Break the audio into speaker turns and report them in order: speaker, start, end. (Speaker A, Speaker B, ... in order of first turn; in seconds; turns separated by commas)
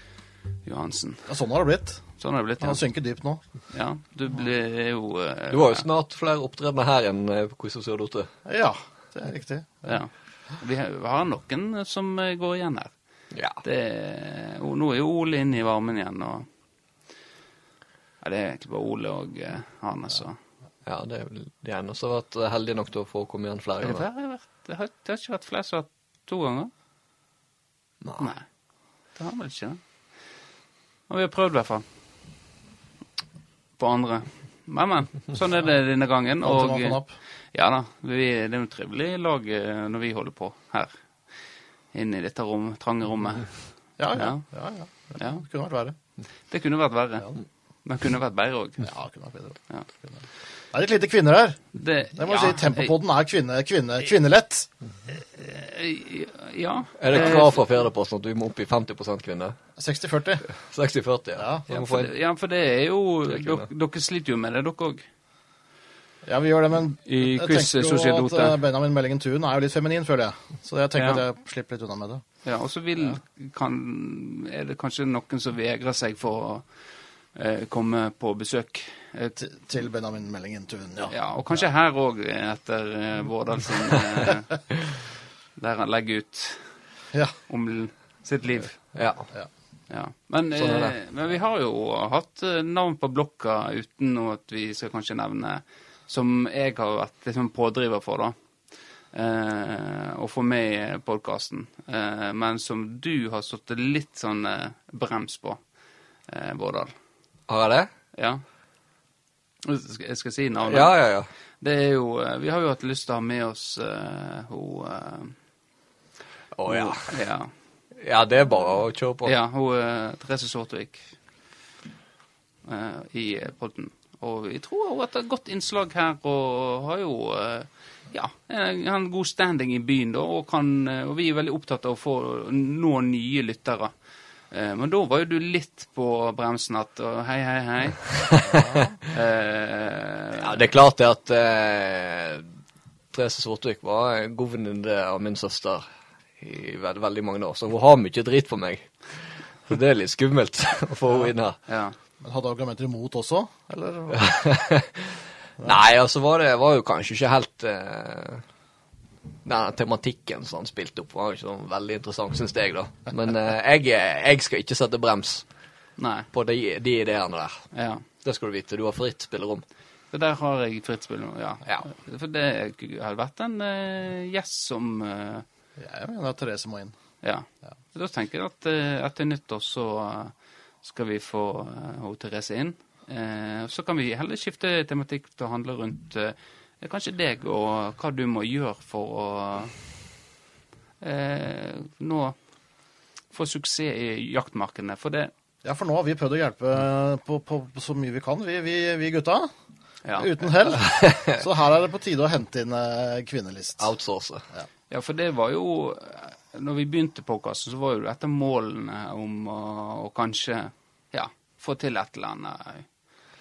Speaker A: 0.7-1.3, Speaker B: 1.3-2.1, Speaker A: 2.2-2.8, Speaker B: 2.6-3.4, Speaker A: 3.7-5.8, Speaker C: 5.5-8.3, Speaker B: 8.4-9.9, Speaker A: 9.9-12.9, Speaker C: 13.3-13.6, Speaker A: 13.6-16.5, Speaker A: 18.2-20.4, Speaker C: 20.9-24.1, Speaker A: 23.8-26.7, Speaker A: 28.2-28.5, Speaker A: 29.1-29.8, Speaker A: 31.1-31.9, Speaker A: 33.8-37.0, Speaker B: 36.4-37.1, Speaker A: 37.5-40.9, Speaker A: 41.9-44.5, Speaker B: 44.0-46.0, Speaker A: 45.2-45.4, Speaker A: 46.5-47.3, Speaker A: 47.9-48.9, Speaker B: 48.8-54.7, Speaker A: 51.7-53.0, Speaker A: 55.3-57.6, Speaker C: 57.0-59.6, Speaker B: 59.8-60.5, Speaker C: 60.5-62.1, Speaker B: 61.4-61.6, Speaker A: 61.7-65.0, Speaker C: 63.3-63.7, Speaker B: 66.2-72.2, Speaker A: 67.1-68.6, Speaker A: 71.0-71.2, Speaker A: 72.4-76.7, Speaker A: 77.3-79.4, Speaker B: 79.4-81.2, Speaker A: 81.1-84.6, Speaker A: 85.6-86.7, Speaker A: 87.5-88.8, Speaker C: 88.9-89.3, Speaker A: 89.9-98.3, Speaker C: 90.5-91.0, Speaker A: 99.1-105.6, Speaker A: 106.3-106.9, Speaker C: 107.5-107.9, Speaker A: 108.1-108.4, Speaker A: 109.6-111.0, Speaker C: 110.6-111.3, Speaker A: 111.6-115.4, Speaker C: 116.5-117.1, Speaker A: 116.7-117.5, Speaker C: 118.0-119.3, Speaker A: 119.2-121.1, Speaker A: 122.7-133.9, Speaker A: 134.5-138.1, Speaker C: 138.3-138.8, Speaker B: 138.4-139.0, Speaker A: 139.1-140.6, Speaker C: 140.4-142.5, Speaker C: 143.1-145.8, Speaker C: 146.4-151.6, Speaker A: 151.7-151.9, Speaker B: 152.2-154.4, Speaker C: 154.1-158.4, Speaker C: 159.4-165.4, Speaker A: 166.0-166.3, Speaker C: 166.3-167.7, Speaker A: 167.7-168.1, Speaker C: 168.2-169.6, Speaker A: 170.1-175.5, Speaker B: 175.8-177.0, Speaker A: 177.2-189.8, Speaker A: 191.0-192.4, Speaker A: 193.3-195.3, Speaker B: 195.6-199.5, Speaker A: 200.1-200.8, Speaker B: 200.2-203.9, Speaker C: 200.8-201.4, Speaker C: 203.8-204.5, Speaker A: 204.9-212.9